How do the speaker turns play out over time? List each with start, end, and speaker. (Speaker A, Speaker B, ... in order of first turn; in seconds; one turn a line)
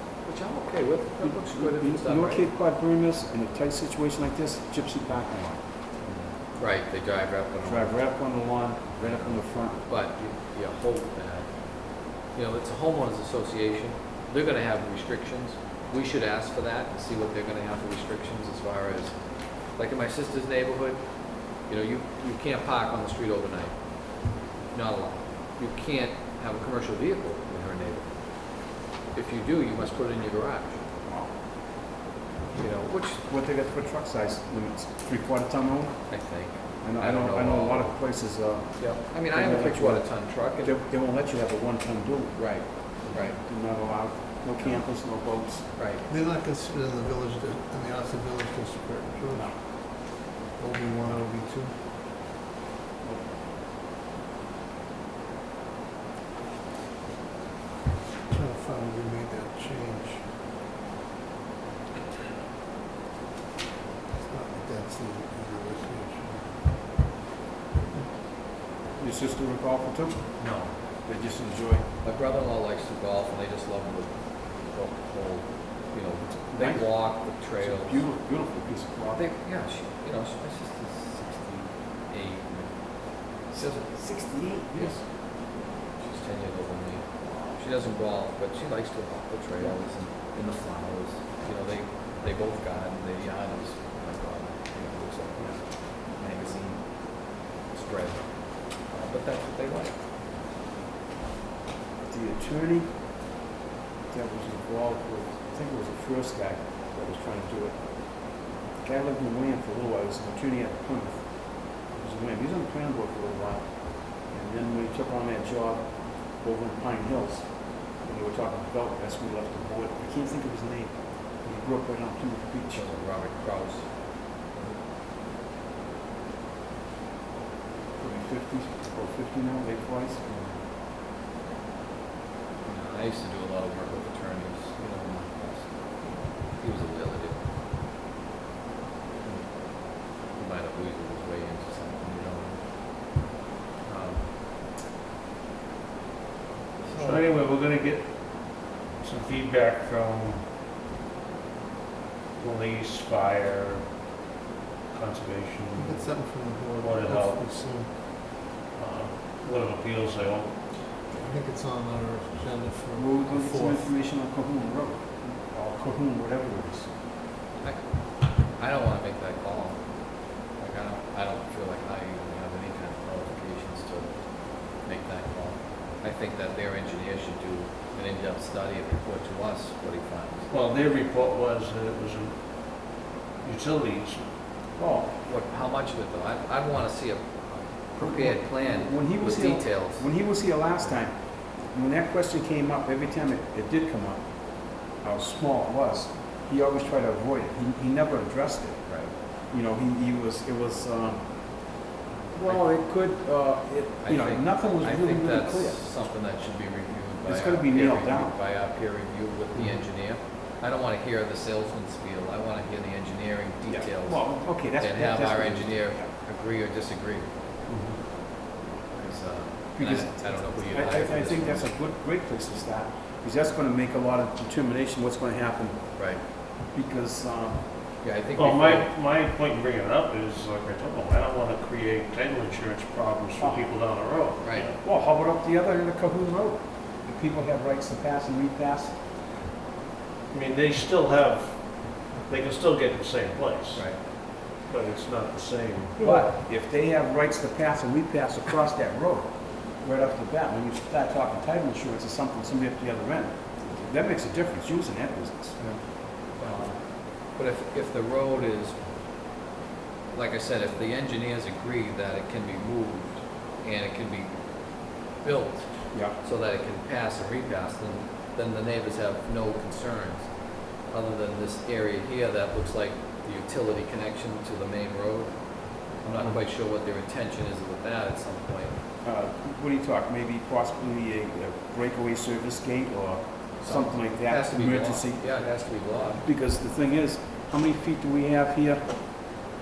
Speaker A: 0.2-2.5
Speaker B: 1.2-5.6
Speaker A: 6.0-8.2
Speaker B: 7.6-9.8
Speaker A: 9.0-30.8
Speaker B: 31.0-31.3
Speaker A: 32.5-33.2
Speaker B: 32.6-36.1
Speaker A: 36.1-38.1
Speaker B: 36.8-45.7
Speaker A: 38.8-40.8
Speaker A: 42.4-43.4
Speaker A: 45.8-46.1
Speaker C: 46.1-51.7
Speaker B: 49.3-49.6
Speaker C: 58.3-60.3
Speaker C: 64.2-66.7
Speaker B: 69.0-70.4
Speaker D: 70.4-70.7
Speaker B: 71.0-71.9
Speaker A: 72.0-78.1
Speaker B: 76.2-79.2
Speaker A: 79.1-83.9
Speaker B: 83.5-85.0
Speaker A: 86.0-100.0
Speaker B: 102.1-102.9
Speaker B: 104.1-108.2
Speaker B: 108.7-122.9
Speaker A: 122.7-124.8
Speaker B: 128.0-130.2
Speaker A: 130.2-130.6
Speaker A: 132.6-137.4
Speaker A: 139.2-143.2
Speaker A: 143.8-144.3
Speaker D: 147.0-150.4
Speaker D: 152.4-153.8
Speaker D: 154.9-156.1
Speaker C: 155.8-157.9
Speaker D: 156.8-157.4
Speaker D: 158.7-160.6
Speaker C: 161.1-163.9
Speaker B: 162.9-166.9
Speaker A: 167.6-180.5
Speaker D: 180.5-182.9
Speaker D: 183.4-184.2
Speaker B: 184.8-185.1
Speaker A: 185.2-190.1
Speaker B: 188.0-201.3
Speaker A: 202.2-202.6
Speaker B: 202.3-205.8
Speaker A: 204.0-217.3
Speaker B: 207.2-208.3
Speaker D: 209.6-209.8
Speaker B: 213.7-216.1
Speaker D: 217.7-218.0
Speaker A: 218.9-221.7
Speaker B: 219.8-226.1
Speaker A: 226.0-226.2
Speaker B: 226.6-227.6
Speaker A: 228.0-228.9
Speaker D: 228.3-234.8
Speaker B: 233.4-233.7
Speaker A: 234.4-234.7
Speaker B: 234.8-239.0
Speaker D: 240.3-246.2
Speaker A: 243.7-244.0
Speaker B: 246.0-255.7
Speaker A: 256.4-258.8
Speaker B: 256.4-256.7
Speaker A: 260.1-270.3
Speaker A: 270.9-278.8
Speaker B: 279.0-289.3
Speaker A: 283.6-286.2